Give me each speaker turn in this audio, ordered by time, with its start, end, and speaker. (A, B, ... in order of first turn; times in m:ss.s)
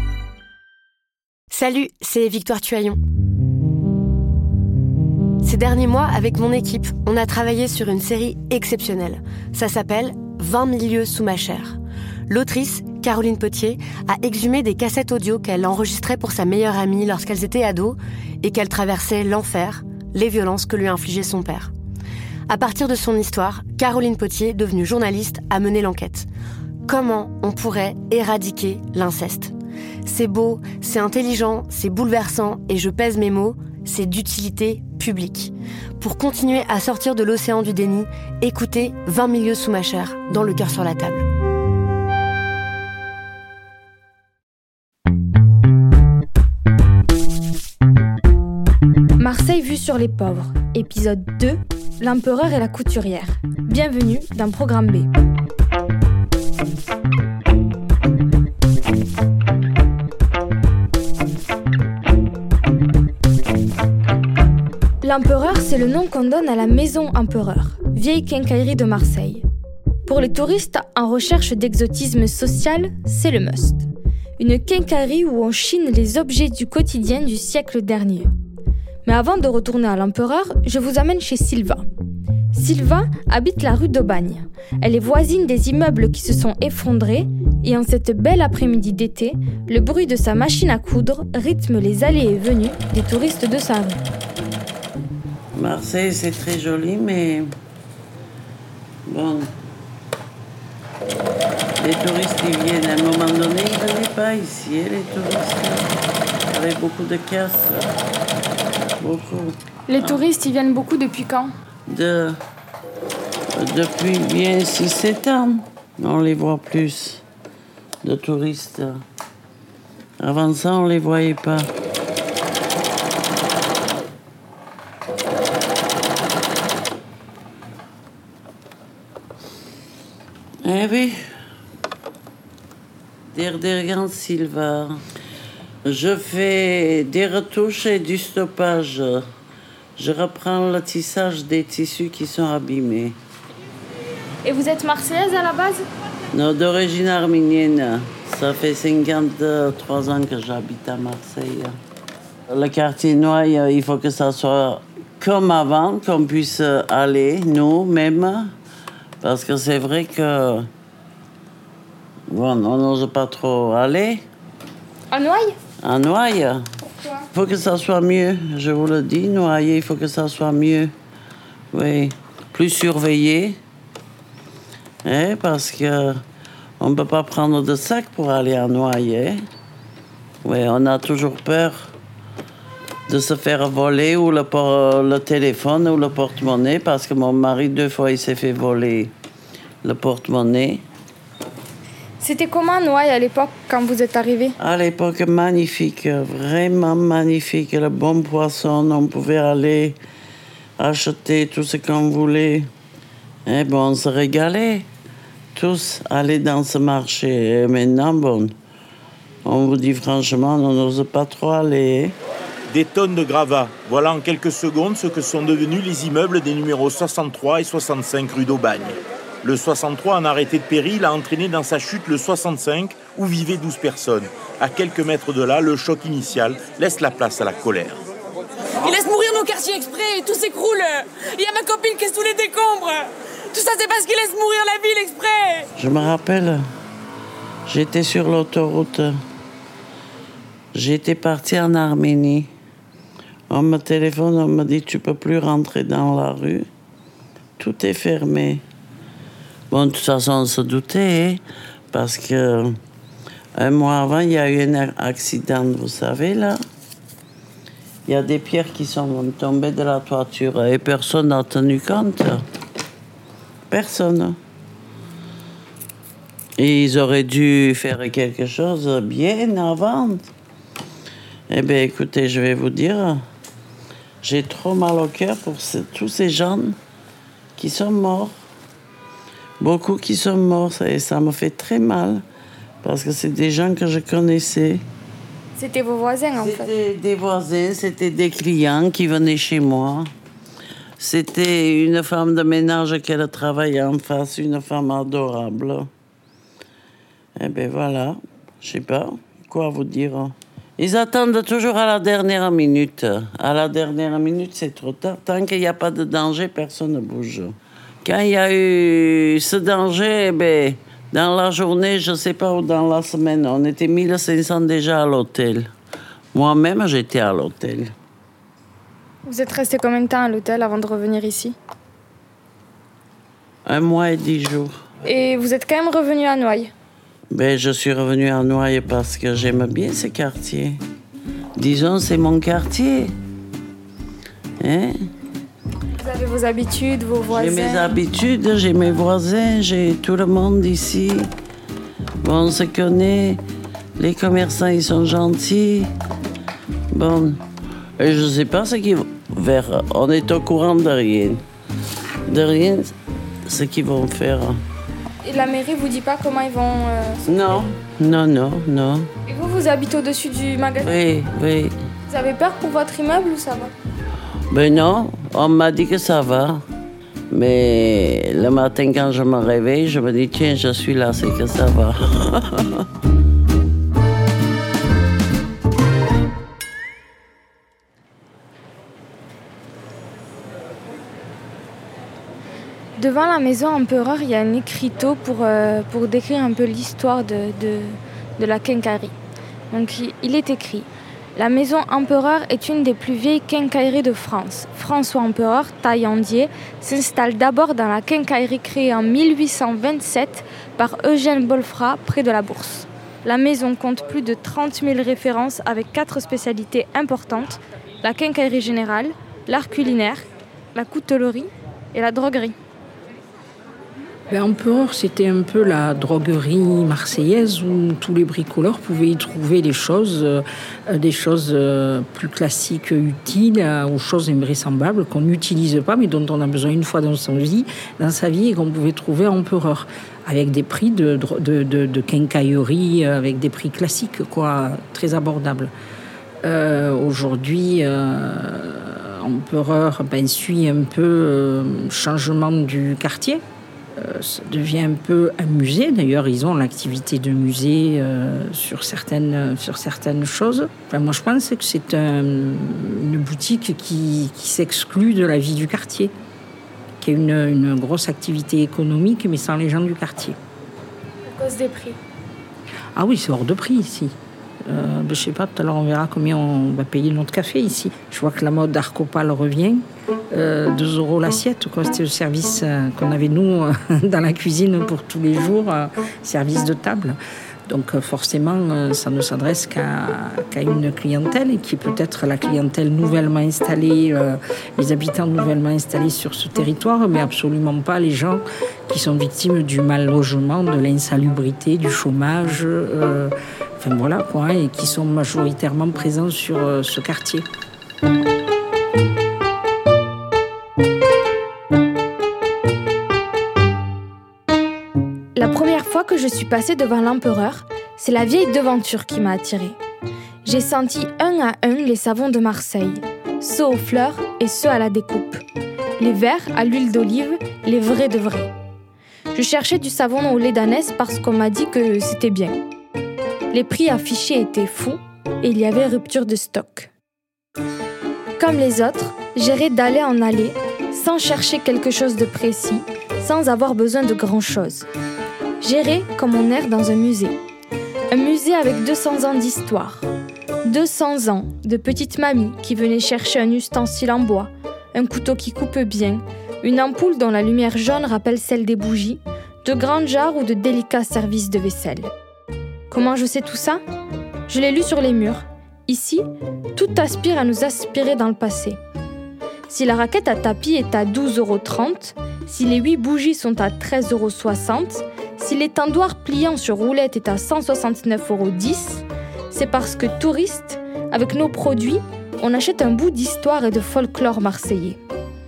0:01.5-0:03.0 A
0:05.4-0:11.8 A
0:12.3-0:21.7 A
0:22.5-0:26.3 A
0:26.9-0:41.3 A
0:49.2-0:55.1 B
1:05.0-1:09.4 B
1:10.0-1:18.3 B
1:19.0-1:21.8 B
1:22.5-1:34.0 B
1:35.6-1:37.5 C
1:39.1-1:39.5 C
1:41.8-1:45.9 C
1:46.5-1:47.9 C
1:49.0-1:50.2 C
1:49.9-1:51.5 B
1:51.9-1:52.4 C
1:53.6-1:57.2 C
1:58.0-1:59.0 C
2:00.2-2:01.7 C
2:10.6-2:11.2 C
2:13.3-2:15.0 C
2:15.8-2:19.3 C
2:20.0-2:23.2 C
2:24.4-2:25.8 B
2:26.3-2:31.8 C
2:32.5-2:38.5 C
2:39.2-2:40.7 C
2:42.3-2:44.2 C
2:45.1-2:45.5 B
2:45.8-2:46.7 C
2:46.8-2:47.2 B
2:47.3-2:50.9 C
2:51.7-2:53.6 C
2:55.0-2:56.2 C
2:56.8-2:59.4 C
3:00.4-3:01.9 C
3:03.1-3:09.1 C
3:09.8-3:10.8 C
3:12.2-3:14.6 B
3:14.6-3:20.0 C
3:20.8-3:22.7 C
3:23.5-3:24.9 C
3:25.6-3:28.5 C
3:29.4-3:32.2 C
3:32.7-3:48.0 D
3:48.8-3:55.7 E
3:55.8-3:56.6 C
3:57.7-3:59.2 C
4:00.8-4:02.5 C
4:03.5-4:06.7 C
4:07.6-4:08.6 C
4:09.7-4:11.4 C
4:11.9-4:12.8 C
4:13.6-4:16.6 C
4:18.1-4:22.4 C
4:23.7-4:24.4 C
4:26.6-4:30.2 C
4:31.5-4:33.2 C
4:34.2-4:36.8 C
4:37.6-4:38.3 C
4:39.6-4:42.2 C
4:42.8-4:44.8 C
4:45.6-4:46.7 B
4:46.4-4:50.1 C
4:51.0-4:55.9 C
4:57.4-5:15.7 C
5:16.3-5:17.9 C
5:19.2-5:21.6 B
5:23.7-5:24.8 C
5:25.1-5:26.7 B
5:27.3-5:30.8 C
5:31.6-5:33.1 C
5:34.6-5:35.0 C
5:36.0-5:37.9 B
5:37.3-5:41.3 C
5:42.2-5:43.4 C
5:44.0-5:45.9 C
5:46.9-5:47.4 C
5:48.0-5:51.4 C
5:52.3-5:52.9 C
5:53.4-5:54.6 C
5:55.2-5:57.2 B
5:57.2-5:59.1 C
5:59.3-6:00.9 B
6:00.8-6:01.7 C
6:02.1-6:03.7 B
6:04.5-6:06.6 C
6:07.3-6:12.8 C
6:23.0-6:29.1 B
6:29.7-6:52.6 B
6:54.3-7:15.7 F
7:16.4-7:23.4 F
7:23.9-7:36.1 F
7:37.0-7:40.4 F
7:41.3-7:42.0 B
7:42.9-7:44.1 F
7:44.7-8:17.5 F
8:25.4-8:29.8 B
8:30.4-8:35.4 B
8:36.0-8:38.5 B
8:39.3-8:42.6 B
8:43.5-8:46.9 B
8:48.4-8:54.9 B
8:55.6-8:57.4 B
8:58.1-9:00.1 B
9:00.6-9:12.1 B
9:12.9-9:13.8 B
9:14.5-9:16.2 B
9:16.8-9:18.8 B
9:19.7-9:35.0 B